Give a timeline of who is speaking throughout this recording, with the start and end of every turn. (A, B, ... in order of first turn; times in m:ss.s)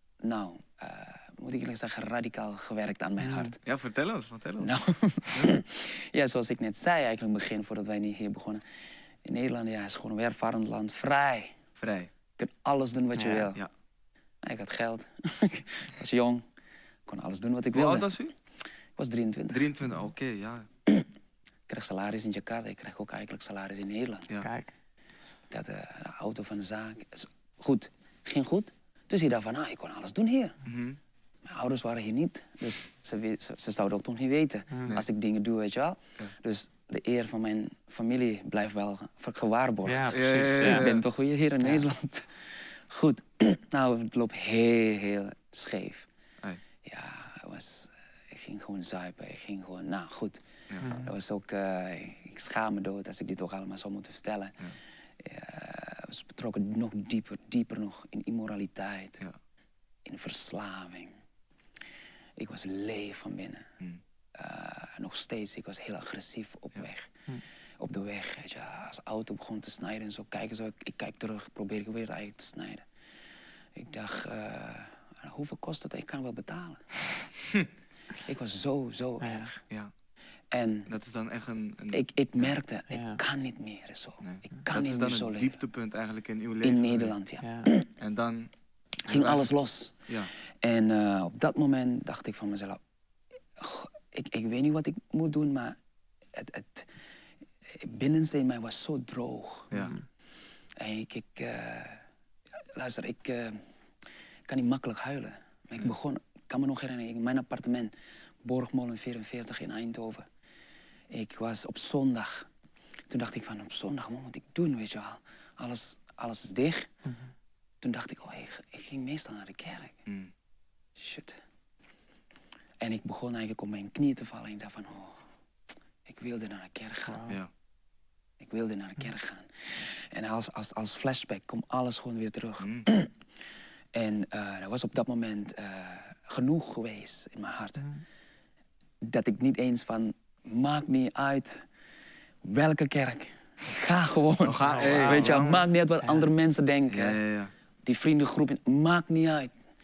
0:00.2-0:03.6 A
0:03.2-0:03.5 B
0:03.6-0:04.8 C
0:04.6-0:08.6 A
0:09.2-0:11.5 A
0:11.8-0:12.1 C
0:12.4-0:13.6 A
0:13.2-0:13.5 B
0:14.4-0:16.4 A
0:17.1-0:18.1 A
0:17.7-0:18.3 C
0:19.0-0:19.7 A
0:19.5-0:20.7 C
0:21.7-0:24.3 A
0:24.4-0:24.7 B
0:25.5-0:30.6 A
0:30.6-0:31.0 C
0:31.5-0:46.1 A
0:39.8-0:41.0 B
0:40.1-0:41.0 C
0:46.8-0:54.6 A
0:50.8-0:51.1 B
0:55.2-0:59.2 A
1:00.0-1:01.1 A
1:02.4-1:03.7 A
1:04.4-1:07.1 A
1:07.8-1:12.8 A
1:13.8-1:17.0 A
1:18.2-1:19.6 A
1:20.5-1:20.9 A
1:20.9-1:22.5 C
1:21.9-1:25.6 A
1:22.9-1:23.2 B
1:24.2-1:27.1 C
1:26.6-1:27.9 A
1:27.4-1:27.7 B
1:28.0-1:28.5 C
1:29.1-1:29.5 C
1:29.1-1:30.0 A
1:30.6-1:32.8 A
1:33.6-1:35.8 A
1:36.3-1:36.9 A
1:37.7-1:39.9 A
1:39.7-1:40.0 C
1:40.8-1:42.0 A
1:42.7-1:43.6 A
1:44.5-1:47.9 A
1:48.4-1:50.2 A
1:51.1-1:52.5 A
1:53.1-1:56.9 A
1:57.8-2:00.0 A
2:01.0-2:01.4 A
2:02.8-2:05.2 A
2:06.0-2:07.3 A
2:07.1-2:07.4 B
2:08.4-2:13.1 A
2:12.6-2:12.9 C
2:13.9-2:17.8 A
2:19.0-2:21.6 A
2:22.4-2:27.2 A
2:24.4-2:25.6 C
2:24.7-2:26.3 B
2:26.9-2:27.5 C
2:27.9-2:29.5 A